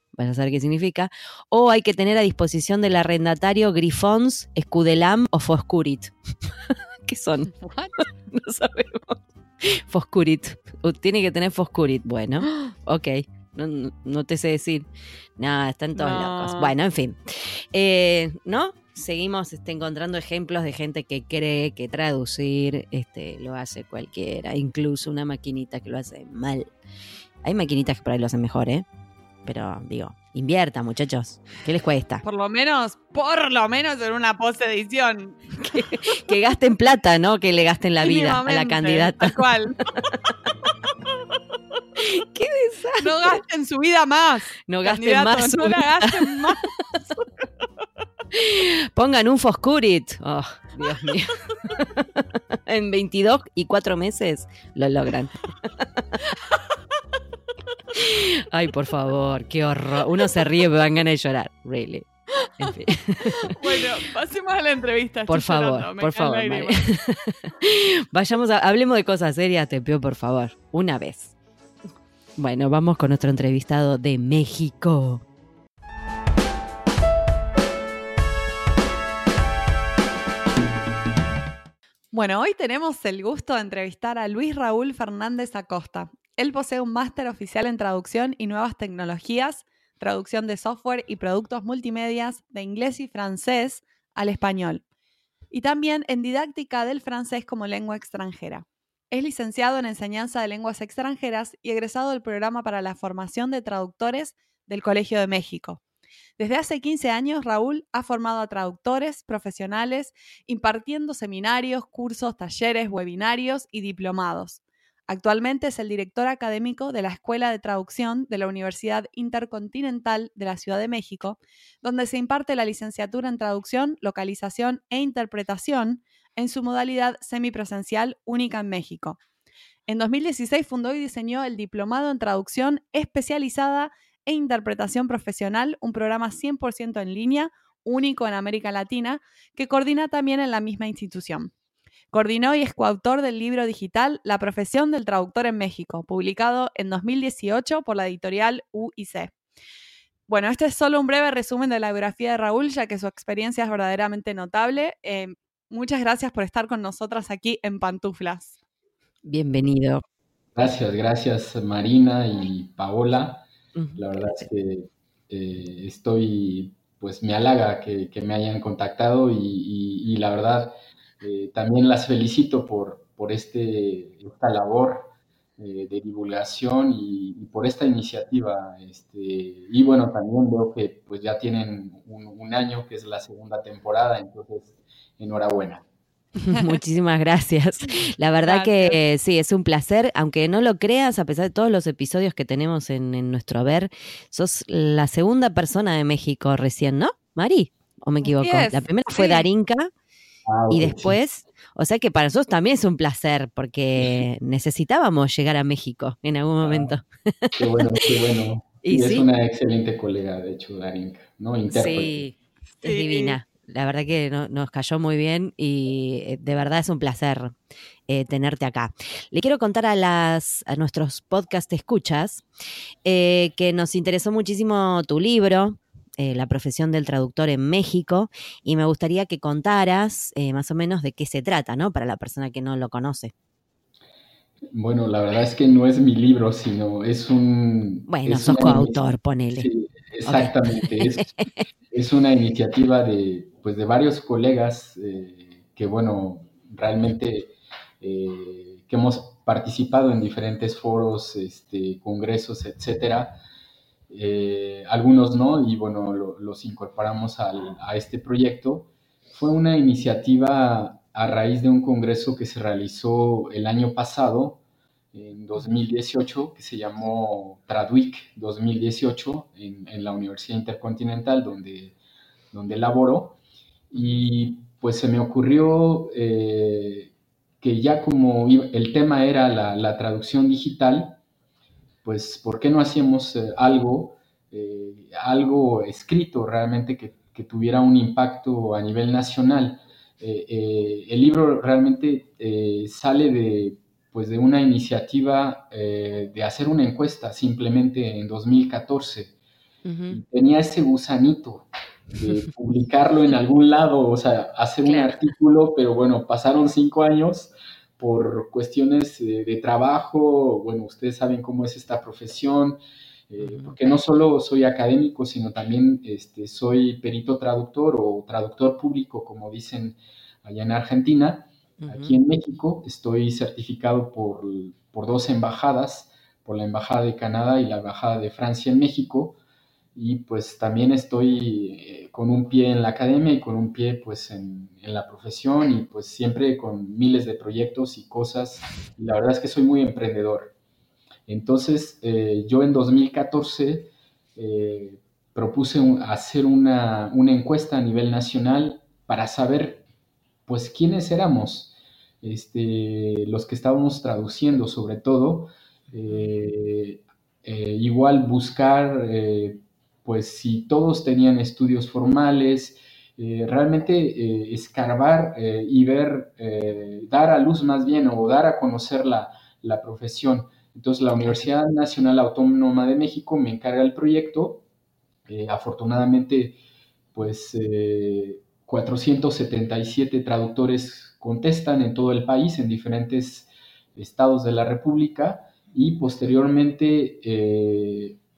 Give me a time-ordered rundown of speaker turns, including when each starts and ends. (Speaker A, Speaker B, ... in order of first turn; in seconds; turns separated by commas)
Speaker A: 0.2-6.1, Speaker A: 7.0-14.9, Speaker B: 7.5-7.9, Speaker A: 15.4-26.7, Speaker B: 16.0-16.7, Speaker A: 27.4-28.9, Speaker A: 29.4-32.2, Speaker B: 32.2-36.4, Speaker A: 35.6-40.1, Speaker B: 38.0-39.8, Speaker A: 42.0-43.4, Speaker B: 43.0-47.2, Speaker A: 44.7-46.5, Speaker A: 48.3-56.2, Speaker A: 57.9-62.1, Speaker B: 62.4-62.7, Speaker A: 62.6-63.6, Speaker B: 63.3-66.8, Speaker A: 65.3-71.3, Speaker A: 72.4-75.2, Speaker B: 82.1-94.8, Speaker B: 95.5-105.8, Speaker B: 106.4-129.2, Speaker B: 129.9-141.5, Speaker B: 142.1-149.3, Speaker B: 150.3-158.6, Speaker A: 159.2-160.0, Speaker C: 160.6-185.8, Speaker A: 163.8-164.5, Speaker A: 186.4-199.9, Speaker B: 188.4-189.0, Speaker B: 198.2-199.5, Speaker C: 200.4-201.2, Speaker A: 200.7-208.1, Speaker C: 206.6-206.9, Speaker C: 207.6-212.2, Speaker A: 208.8-209.3, Speaker A: 211.7-217.6, Speaker B: 212.8-213.4, Speaker A: 218.1-222.4, Speaker A: 223.1-233.3, Speaker C: 234.7-239.0, Speaker A: 238.1-239.7, Speaker C: 239.6-241.3, Speaker A: 240.3-241.7, Speaker C: 241.9-253.4, Speaker C: 254.1-264.6, Speaker C: 265.1-271.9, Speaker C: 272.5-273.4, Speaker C: 273.9-281.2, Speaker C: 282.0-299.3, Speaker A: 299.8-300.2, Speaker C: 300.1-312.8, Speaker A: 304.8-305.2, Speaker C: 313.3-329.4, Speaker A: 313.4-313.8, Speaker A: 321.8-322.2, Speaker C: 329.9-340.5, Speaker C: 341.3-349.8, Speaker C: 350.5-374.6, Speaker A: 356.1-356.3, Speaker C: 375.3-376.6, Speaker C: 377.1-388.2